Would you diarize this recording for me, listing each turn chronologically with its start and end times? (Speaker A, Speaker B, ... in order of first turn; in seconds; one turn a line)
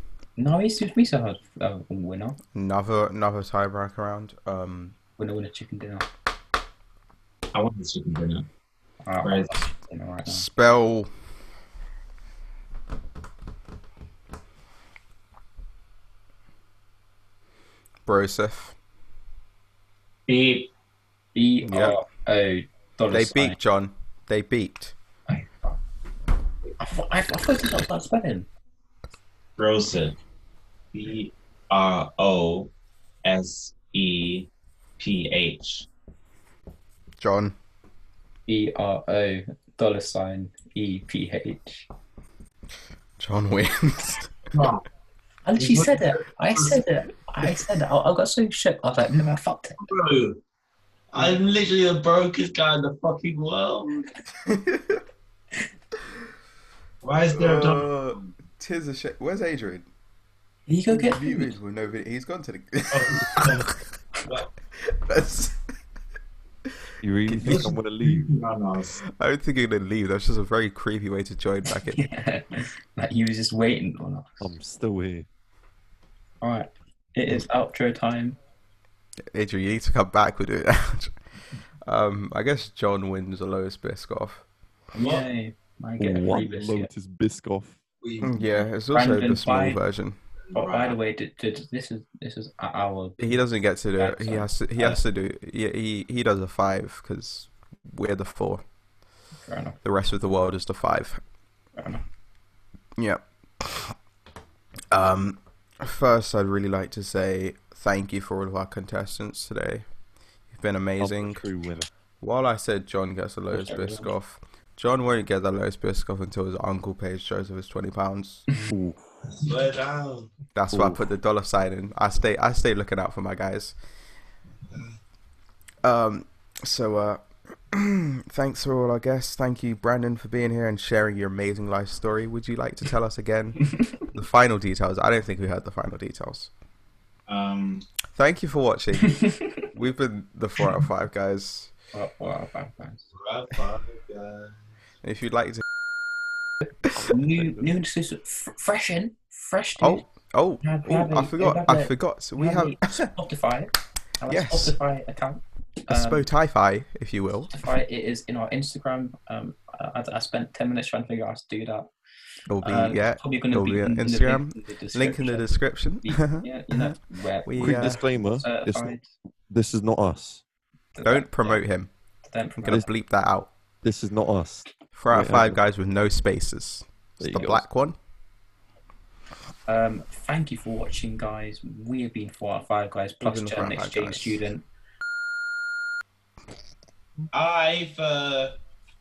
Speaker A: 0.4-2.4
Speaker B: 2.5-5.0
Speaker A: 5.2-6.1
Speaker C: 7.5-8.5
Speaker A: 9.0-10.4
Speaker C: 9.2-9.5
Speaker B: 10.2-11.1
Speaker B: 18.1-18.7
Speaker C: 20.3-20.7
Speaker A: 21.3-23.6
Speaker B: 21.6-22.0
Speaker B: 23.1-24.9
Speaker A: 25.3-25.8
Speaker A: 26.8-28.5
Speaker C: 29.6-30.2
Speaker C: 30.9-32.7
Speaker C: 33.2-35.9
Speaker B: 37.2-37.5
Speaker A: 38.5-41.9
Speaker B: 43.2-44.4
Speaker C: 44.5-44.8
Speaker A: 45.4-49.8
Speaker C: 45.6-46.8
Speaker D: 49.9-50.4
Speaker C: 49.9-50.3
Speaker D: 51.1-54.1
Speaker C: 51.1-51.4
Speaker B: 54.5-55.0
Speaker C: 57.0-58.1
Speaker D: 57.0-57.4
Speaker B: 57.3-59.9
Speaker A: 60.7-61.6
Speaker B: 60.9-63.7
Speaker C: 62.9-63.7
Speaker B: 64.8-65.6
Speaker E: 67.0-68.3
Speaker B: 67.3-67.7
Speaker C: 67.4-69.0
Speaker B: 69.2-72.0
Speaker A: 71.8-74.5
Speaker E: 74.4-75.3
Speaker A: 76.4-78.4
Speaker B: 79.3-81.1
Speaker B: 81.9-84.4
Speaker A: 84.9-86.9
Speaker E: 86.0-87.8
Speaker C: 88.0-88.4
Speaker B: 88.2-90.2
Speaker A: 88.9-89.8
Speaker C: 90.5-90.9
Speaker A: 90.5-93.4
Speaker B: 93.2-98.6
Speaker A: 94.0-94.5
Speaker A: 99.4-99.8
Speaker B: 99.8-101.2
Speaker A: 101.8-102.0
Speaker B: 103.0-103.9
Speaker B: 104.9-109.8
Speaker B: 110.5-111.5
Speaker E: 111.0-111.9
Speaker B: 112.2-118.5
Speaker A: 113.5-114.1
Speaker E: 118.7-119.0
Speaker D: 119.5-120.3
Speaker B: 120.5-123.7
Speaker E: 120.7-121.0
Speaker B: 125.8-136.5
Speaker C: 137.3-137.8
Speaker B: 138.1-141.7
Speaker A: 141.9-143.1
Speaker D: 143.1-144.6
Speaker B: 145.0-145.6
Speaker E: 146.9-147.8
Speaker A: 147.0-150.0
Speaker B: 149.8-153.1
Speaker A: 150.6-156.3
Speaker B: 154.3-154.8
Speaker B: 155.9-157.5
Speaker A: 157.5-161.9
Speaker B: 162.5-168.0
Speaker A: 162.6-169.1
Speaker E: 167.6-169.0
Speaker E: 169.5-170.4
Speaker A: 170.9-171.6
Speaker B: 171.0-171.9
Speaker A: 172.2-172.8
Speaker B: 172.6-173.5
Speaker E: 173.8-175.6
Speaker B: 174.9-178.0
Speaker E: 177.2-177.7
Speaker A: 179.7-184.6
Speaker B: 183.2-184.4
Speaker D: 187.3-188.6